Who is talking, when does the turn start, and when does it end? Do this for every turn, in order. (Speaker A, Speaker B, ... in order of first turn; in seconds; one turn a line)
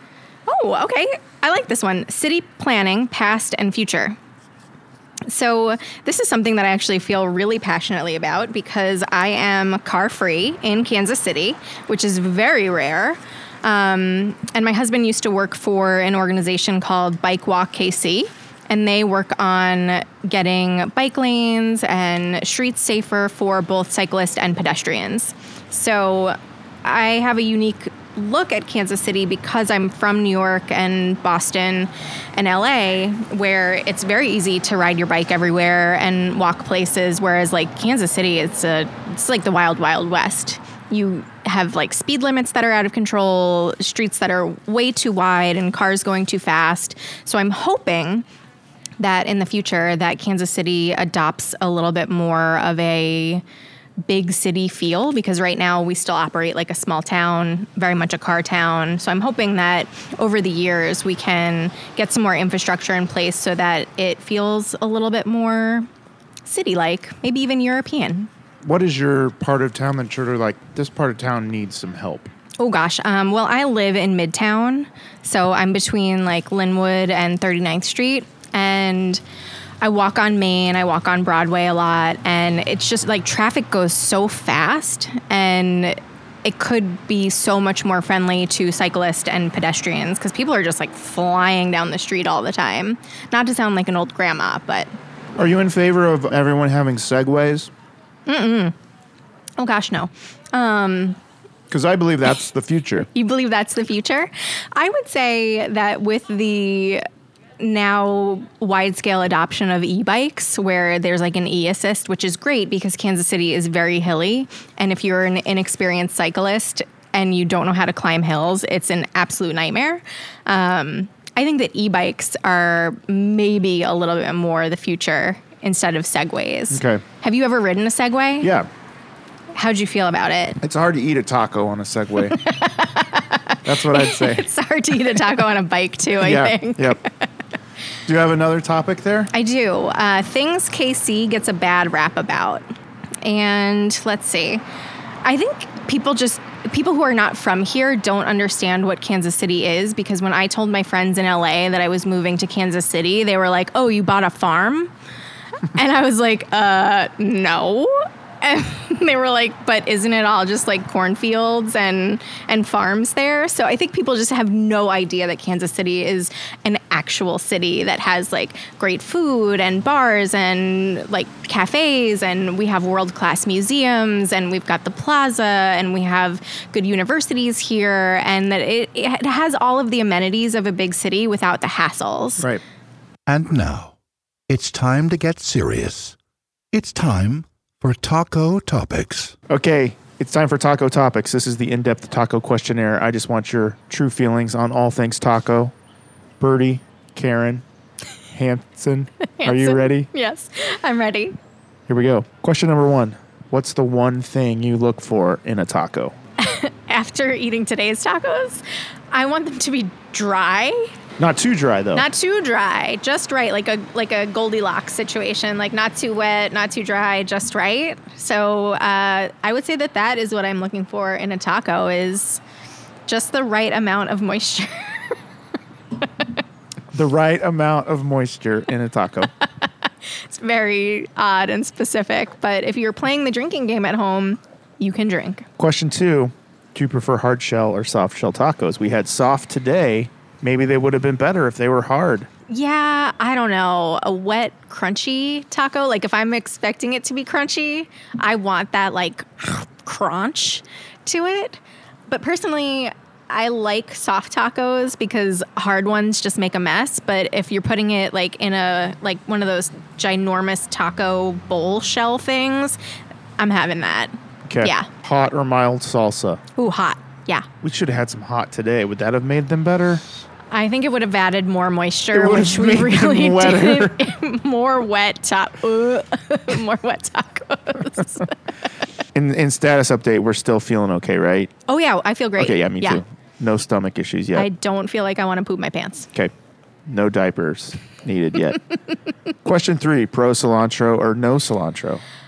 Speaker A: 0.5-4.2
Speaker A: 5.3-48.3
Speaker A: 49.0-53.4
Speaker A: 54.0-65.9
Speaker A: 66.5-68.3
Speaker B: 68.6-72.3
Speaker A: 72.6-79.2
Speaker A: 79.8-94.9
Speaker B: 95.4-97.7
Speaker A: 98.3-98.8
Speaker A: 99.6-101.2
Speaker B: 101.7-103.1
Speaker A: 103.1-107.0
Speaker A: 107.6-128.5
Speaker B: 126.7-127.0
Speaker B: 128.4-128.7
Speaker A: 129.5-130.6
Speaker B: 130.6-132.4
Speaker A: 132.4-137.1
Speaker B: 133.7-134.5
Speaker B: 136.2-137.0
Speaker B: 138.1-139.3
Speaker A: 139.3-142.7
Speaker A: 143.2-144.6
Speaker A: 145.2-154.9
Speaker A: 155.7-182.5
Speaker C: 183.3-184.0
Speaker C: 184.5-186.2
Speaker C: 186.7-189.3
Speaker B: 189.5-195.7
Speaker B: 196.4-197.6
Speaker B: 198.3-200.1
Speaker A: 199.3-201.4
Speaker B: 201.9-206.2
Speaker A: 206.4-210.9
Speaker B: 211.2-212.1
Speaker A: 211.9-222.4
Speaker A: 223.1-225.2
Speaker B: 226.9-229.3
Speaker A: 229.6-235.5
Speaker B: 235.6-242.3
Speaker A: 242.5-262.8
Speaker A: 263.4-264.9
Speaker B: 264.5-266.4
Speaker A: 266.6-267.5
Speaker B: 267.6-270.0
Speaker A: 270.5-278.4
Speaker B: 272.1-274.1
Speaker B: 279.1-281.5
Speaker A: 281.7-283.0
Speaker B: 282.4-284.5
Speaker A: 284.4-286.1
Speaker B: 286.9-288.6
Speaker B: 289.4-292.0